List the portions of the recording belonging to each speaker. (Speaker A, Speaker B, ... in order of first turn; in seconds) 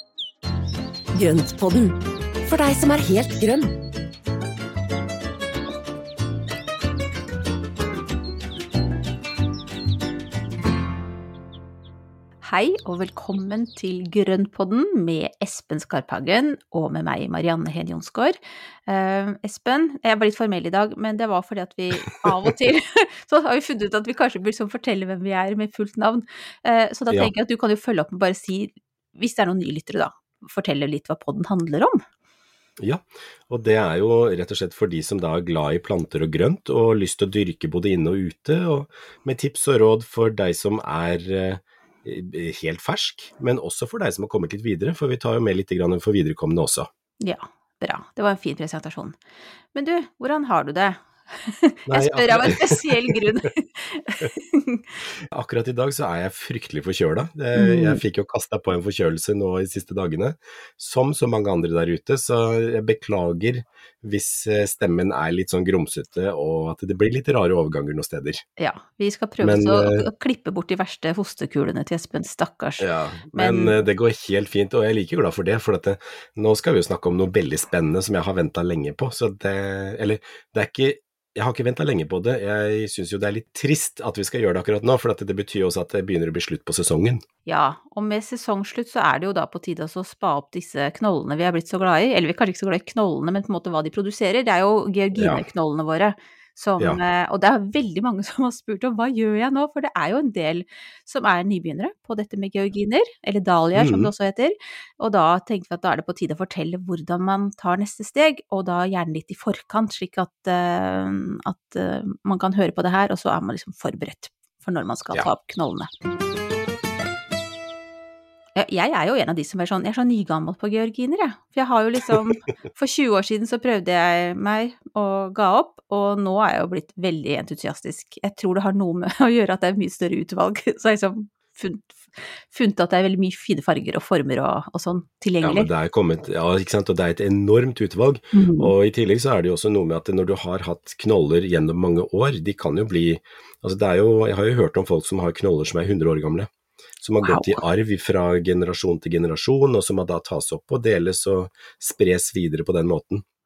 Speaker A: 1.1-3.7
Speaker B: 12.4-32.0, 47.2-49.2, 49.7-55.0, 57.5-58.0, 68.6-73.8, 87.5-115.9, 118.5-135.7, 138.3-138.7, 147.2-147.6
Speaker C: 32.8-46.9, 51.9-53.2, 55.2-68.4, 69.4-70.1, 72.8-87.2, 95.2-95.4, 103.8-104.1, 135.4-146.5, 147.0-153.2